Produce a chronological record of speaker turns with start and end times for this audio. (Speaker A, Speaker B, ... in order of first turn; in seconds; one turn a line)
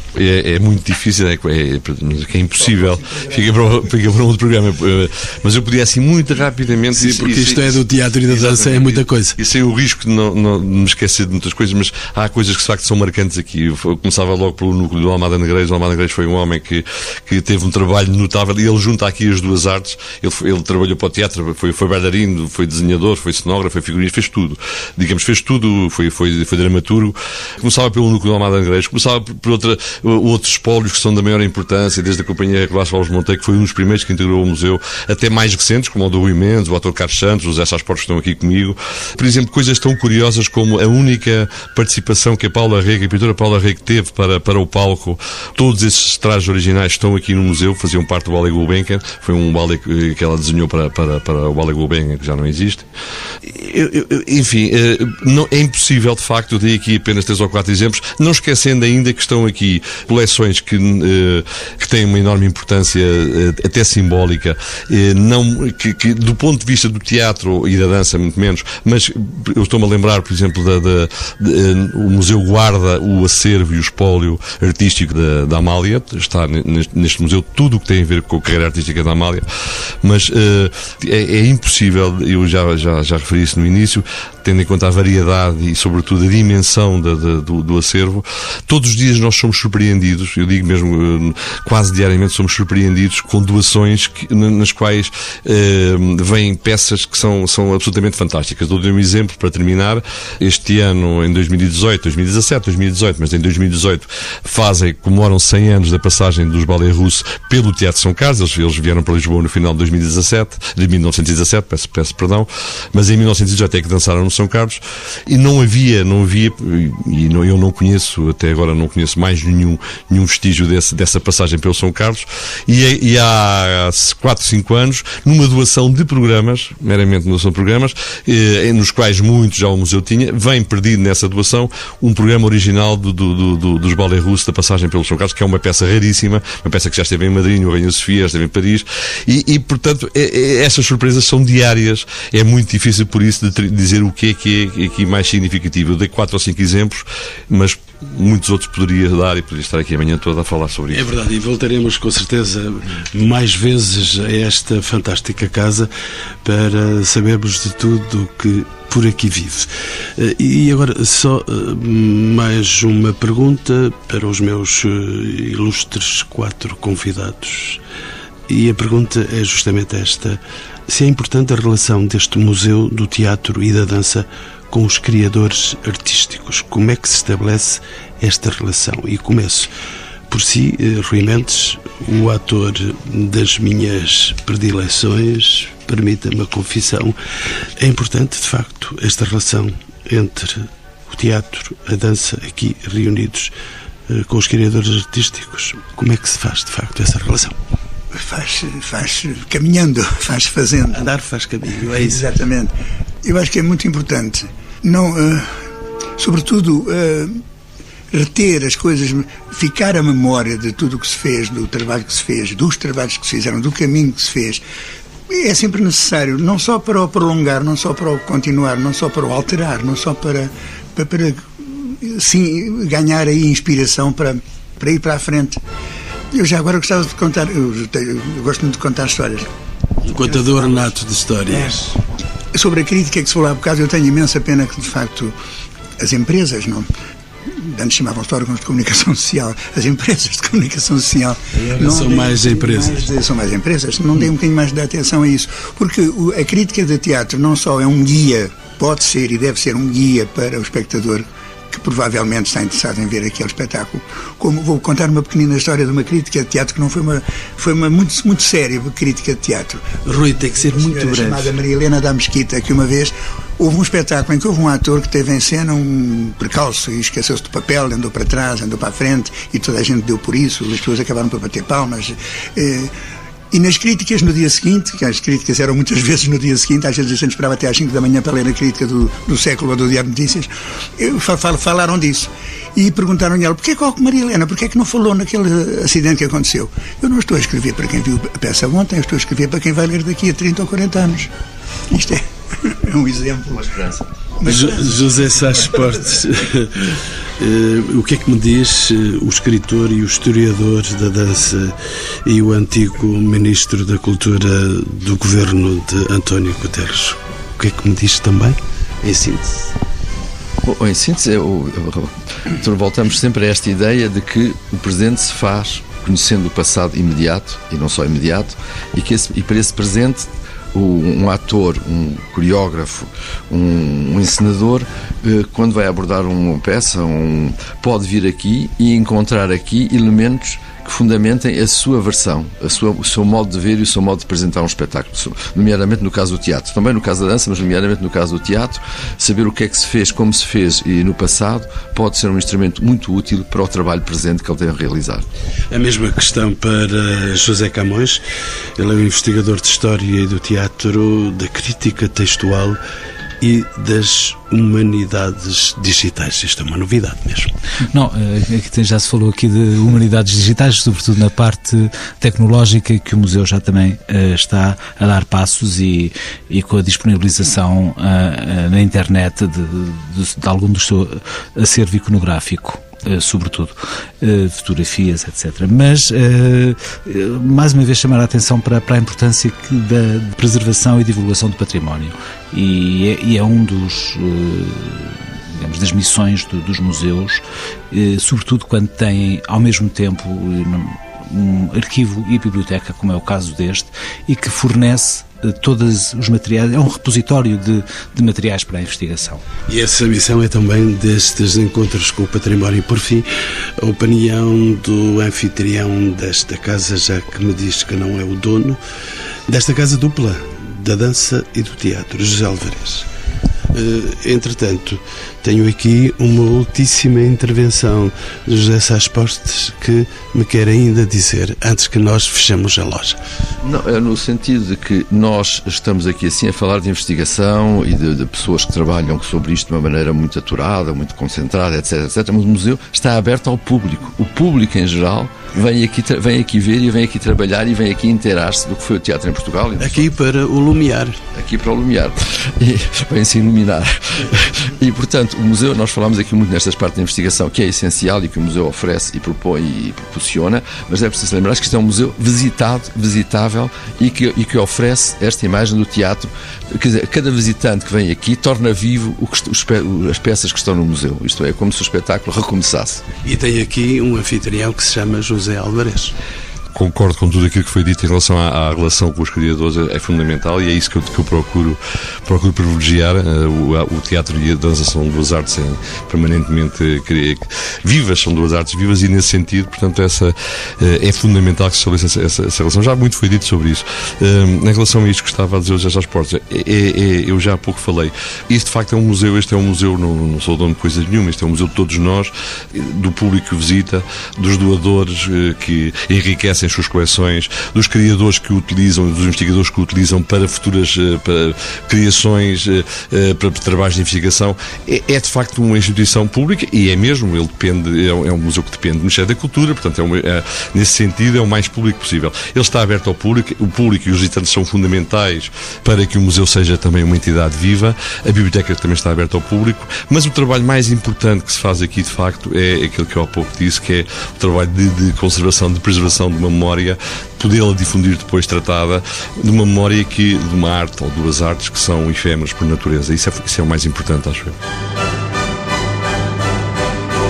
Speaker A: 0.1-52.9
Speaker B: 6.9-9.4
Speaker A: 53.4-79.4
Speaker A: 80.0-151.1
Speaker B: 150.9-155.9
Speaker B: 156.4-167.8
Speaker B: 168.5-179.7
Speaker B: 180.3-187.2
Speaker B: 187.8-193.5
Speaker B: 194.1-197.6
Speaker C: 198.1-201.0
Speaker B: 200.9-202.3
Speaker C: 201.9-202.7
Speaker C: 203.2-205.5
Speaker C: 206.2-207.4
Speaker C: 208.1-214.6
Speaker C: 215.3-225.6
Speaker C: 226.3-229.5
Speaker B: 230.0-232.0
Speaker C: 232.5-235.3
Speaker C: 236.0-236.9
Speaker C: 237.6-260.0
Speaker B: 241.6-243.1
Speaker B: 260.0-261.6
Speaker C: 260.6-272.9
Speaker C: 273.5-291.3
Speaker C: 291.9-294.9
Speaker B: 294.4-309.7
Speaker D: 310.6-345.3
Speaker B: 345.7-348.2
Speaker B: 348.8-352.8
Speaker B: 353.4-357.5
Speaker E: 357.9-399.4
Speaker B: 399.7-403.3
Speaker B: 403.8-408.8
Speaker B: 409.5-413.1
Speaker B: 413.7-423.2
Speaker D: 423.6-440.1
Speaker B: 439.8-441.2
Speaker D: 441.3-463.0
Speaker B: 463.2-466.1
Speaker A: 466.7-534.6